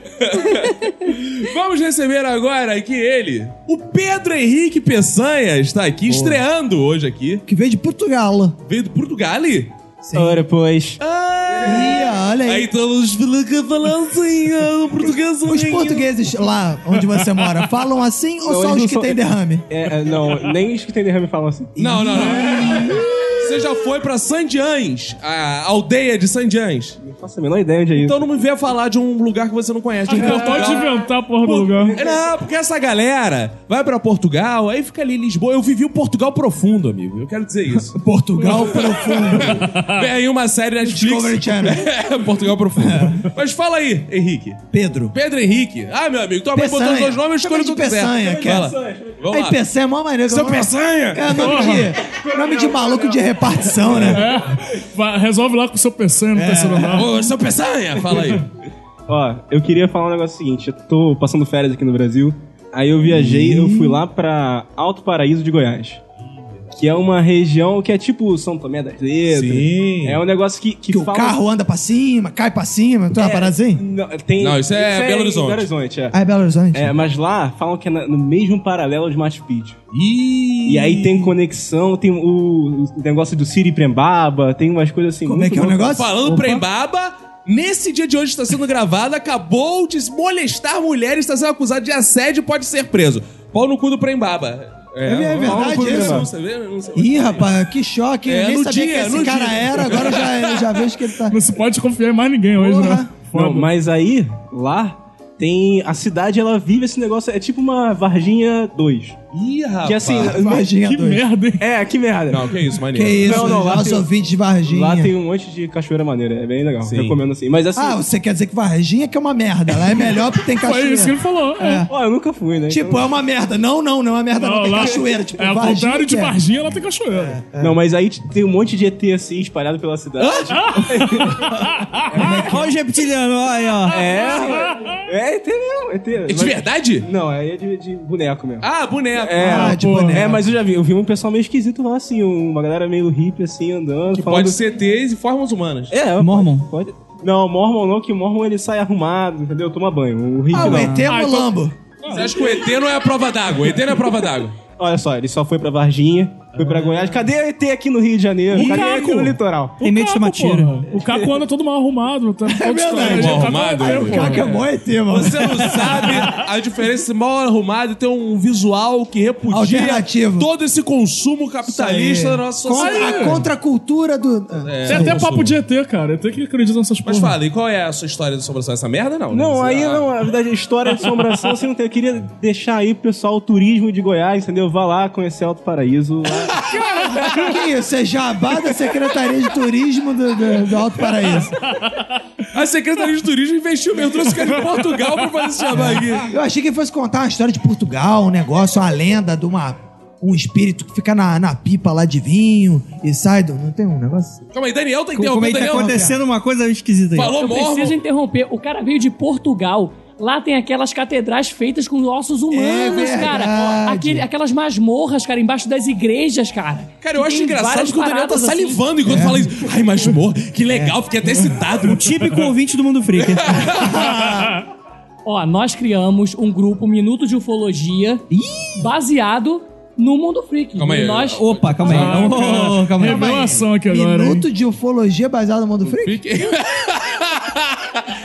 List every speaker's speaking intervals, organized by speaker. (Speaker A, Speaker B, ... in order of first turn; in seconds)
Speaker A: 0.2-7.4, 8.7-9.7, 11.0-16.1, 21.8-27.0, 27.9-49.6, 50.3-51.9, 56.9-58.5, 69.3-70.2, 74.4-75.7, 79.9-81.3, 85.9-97.6, 98.3-100.8, 109.3-110.4, 112.3-113.7, 116.8-117.2, 130.2-130.5, 136.3-137.1, 138.6-139.8, 144.1-145.9, 152.1-154.6, 163.0-173.4, 174.7-175.6, 177.0-180.1, 186.5-187.4, 192.5-196.3, 204.5-206.1, 207.1-208.0, 217.0-222.1, 223.5-223.8, 230.8-232.4, 235.8-238.0
Speaker B: 6.1-6.4, 7.5-8.6, 10.0-10.4, 11.6-12.7, 15.4-19.6, 21.8-23.2, 37.8-39.7, 40.8-41.9, 42.8-43.2, 44.7-45.1, 46.5-48.8, 49.3-54.3, 56.3-57.1, 63.1-64.0, 70.9-73.8, 76.1-76.9, 85.2-86.2, 95.0-96.3, 96.9-101.3, 102.5-103.1, 110.1-111.3, 112.9-115.1, 117.7-121.9, 122.7-126.4, 127.1-127.8, 132.1-132.7, 139.4-140.4, 150.5-151.7, 162.4-166.3, 169.5-170.5, 171.6-175.2, 187.2-191.5, 195.8-204.4, 205.6-206.2, 212.5-214.3, 219.0-219.5, 220.7-221.0, 223.7-224.6, 233.0-236.2
Speaker C: 10.1-11.0, 18.4-21.7, 27.0-28.2, 31.8-32.3, 48.2-49.1, 52.4-53.2, 59.1-66.0, 66.7-71.4, 73.1-76.1, 76.7-79.8, 80.7-86.6, 95.4-96.3, 103.3-109.2, 109.8-110.7, 111.6-112.5, 113.2-114.1, 114.6-118.0, 121.9-123.1, 127.6-131.5, 132.1-132.7, 133.9-144.7, 145.9-151.0, 154.8-159.8, 179.3-186.5
Speaker D: 30.1-32.0, 51.4-51.9, 54.1-57.1, 101.3-103.7, 110.7-111.7, 120.6-121.8, 124.4-127.4, 130.6-132.0, 134.3-135.0, 139.6-140.2, 151.0-152.7, 156.5-157.2, 158.5-164.6, 172.7-173.4, 174.8-177.4, 231.8-234.4
Speaker E: 132.5-134.0, 146.2-146.7, 150.5-151.1, 159.8-161.0, 205.1-207.3, 221.8-223.7, 228.3-228.9, 231.3-233.6
Speaker F: 207.3-218.8, 225.2-228.2, 228.8-231.4